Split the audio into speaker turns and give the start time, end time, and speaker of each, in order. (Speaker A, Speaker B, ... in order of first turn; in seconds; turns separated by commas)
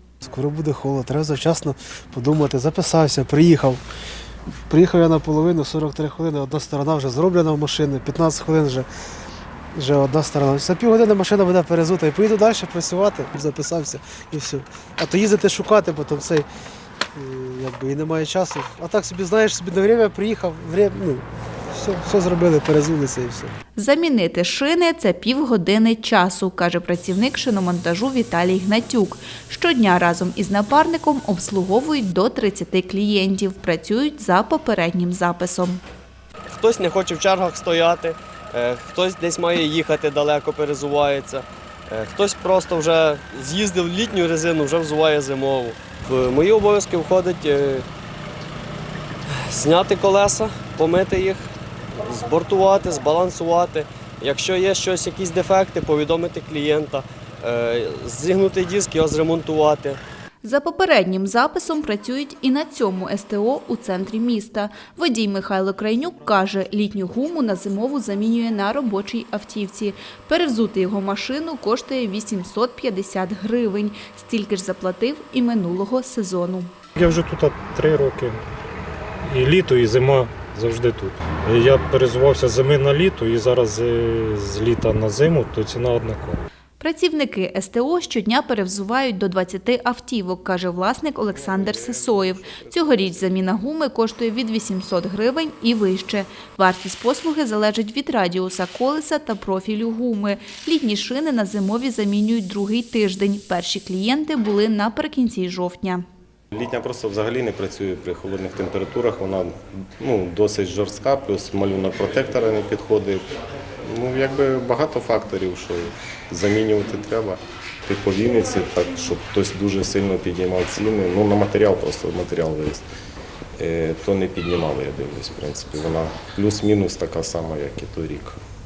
Speaker A: 0.2-3.8, Speaker A: 4.7-8.9, Speaker A: 9.8-16.5, Speaker A: 17.1-23.5, Speaker B: 23.8-35.8, Speaker C: 36.5-47.9, Speaker C: 49.5-60.0, Speaker B: 60.4-76.7, Speaker D: 77.0-78.4, Speaker D: 79.3-86.4, Speaker B: 86.8-106.0, Speaker E: 91.3-93.4, Speaker E: 106.5-113.3, Speaker E: 113.8-122.8, Speaker E: 123.6-128.4